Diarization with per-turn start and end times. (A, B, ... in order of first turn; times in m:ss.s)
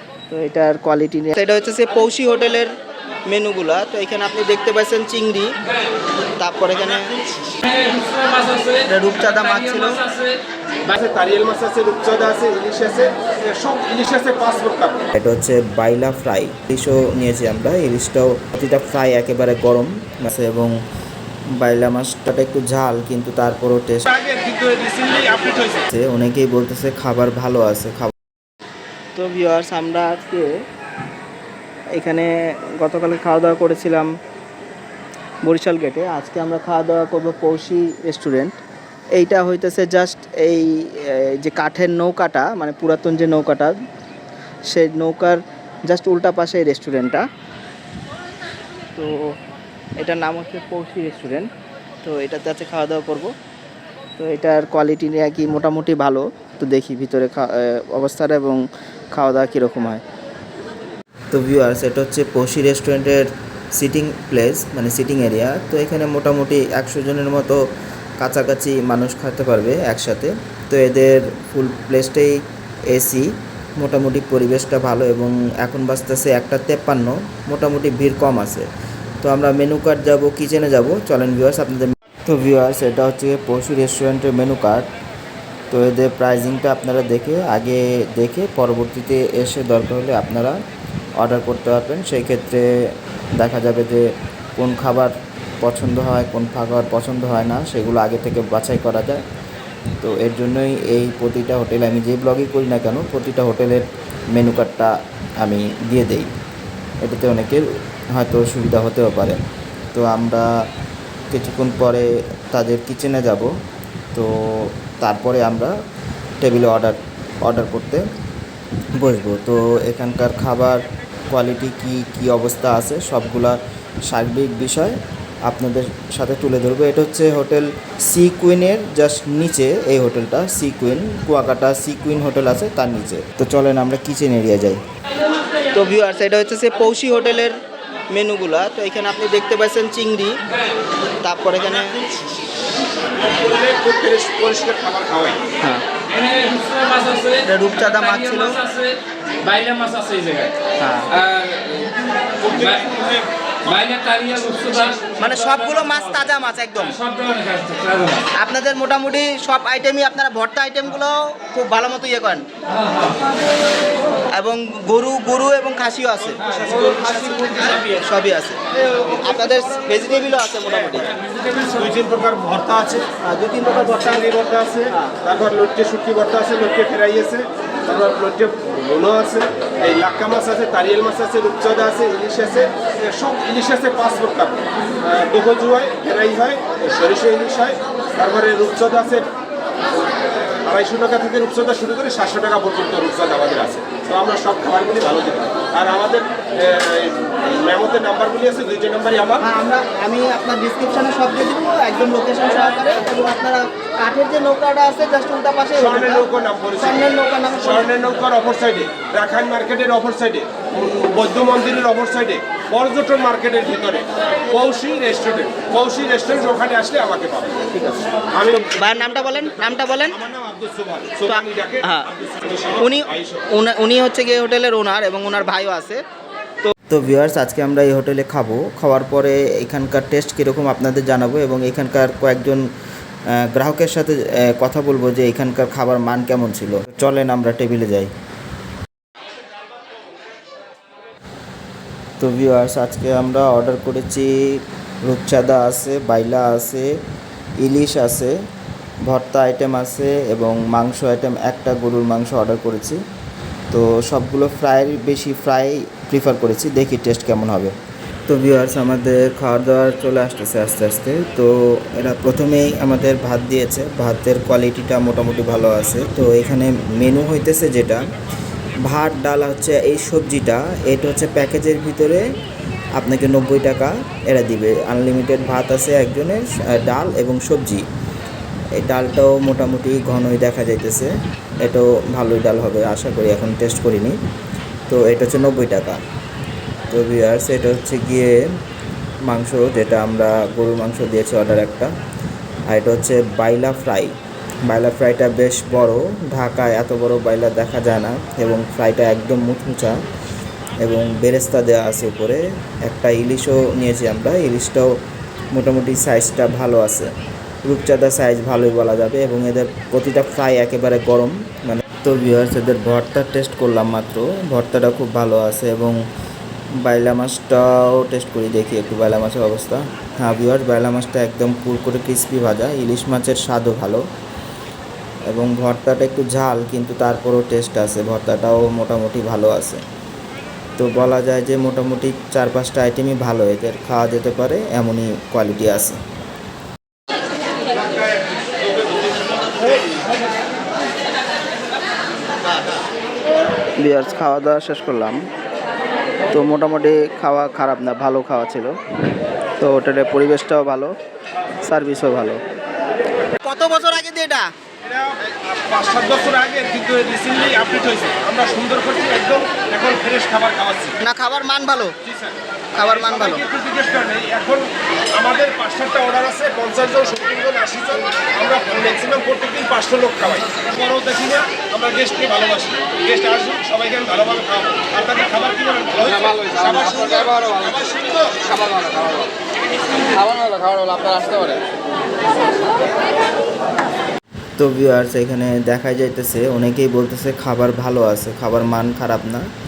0:00.3-0:02.7 A
0:03.3-0:05.6 A
0:06.4-0:07.2 A
0:07.9-0:08.6 B
0:08.8-0:10.2 A
0:10.9-0:15.1 C
0:15.1-0:20.7 A
0:21.6-0:24.0 A
0:24.0-0:25.9 C
0:25.9-0:28.1 A
0:29.2-0:30.5 A
0:32.0-0:34.1 A
0:35.4-0:38.6 A
0:39.1-0:43.8 A
0:44.7-0:47.2 A
0:48.9-0:49.3 A
0:50.0-0:51.5 A
0:52.0-0:53.3 A
0:54.2-0:58.6 A
0:59.1-1:00.0 A
1:01.3-1:07.6 A
1:08.2-1:18.7 A
1:19.2-1:24.9 A
1:25.7-1:30.6 A
1:31.2-1:32.7 A
1:33.4-1:39.2 A
1:40.0-1:46.3 A
1:47.0-1:49.4 A
1:49.9-1:50.5 A
1:51.3-1:53.5 A
1:54.1-1:55.7 A
1:56.4-1:58.0 A
1:58.9-2:03.6 A
2:04.1-2:14.8 A
2:15.7-2:17.6 A
2:18.1-2:20.4 A
2:21.2-2:22.0 A
2:23.3-2:25.4 C
2:26.4-2:27.1 B
2:27.3-2:28.7 A
2:29.5-2:30.4 B
2:30.8-2:31.3 A
2:32.4-2:35.0 C
2:33.9-2:34.2 B
2:35.2-2:37.0 A
2:37.4-2:37.9 B
2:38.3-2:42.4 A
2:44.3-2:51.2 A
2:46.4-2:47.7 C
2:51.6-2:53.1 C
2:53.2-2:54.3 A
2:53.9-3:09.3 C
2:54.9-2:55.2 A
3:10.6-3:19.4 C
3:19.4-3:26.2 A
3:25.8-3:27.0 C
3:26.8-3:28.0 A
3:27.6-3:37.6 C
3:37.7-3:40.2 A
3:38.4-3:38.8 C
3:40.2-3:41.8 C
3:41.3-3:42.1 A
3:42.8-3:46.0 A
3:46.6-3:52.6 A
3:53.3-3:58.1 A
4:02.2-4:06.9 A
4:07.6-4:08.3 A
4:09.0-4:13.0 A
4:13.7-4:17.7 A
4:18.3-4:28.1 A
4:28.8-4:32.2 A
4:33.0-4:37.8 A
4:38.8-4:44.2 A
4:44.9-4:46.0 A
4:46.9-4:48.4 A
4:49.3-4:51.9 A
4:52.7-4:54.1 A
4:54.7-5:00.0 A
5:00.8-5:04.9 A
5:05.5-5:07.1 A
5:07.6-5:16.0 A
5:16.8-5:24.0 A
5:25.3-5:29.8 A
5:30.8-5:36.0 A
5:43.8-5:45.2 A
5:46.3-5:48.7 A
5:49.6-5:50.9 A
5:51.6-5:52.4 A
5:53.4-5:54.5 A
5:54.8-6:01.0 C
6:01.0-6:01.9 A
6:02.0-6:19.3 C
6:02.7-6:03.4 A
6:20.2-6:21.6 B
6:24.6-6:29.5 A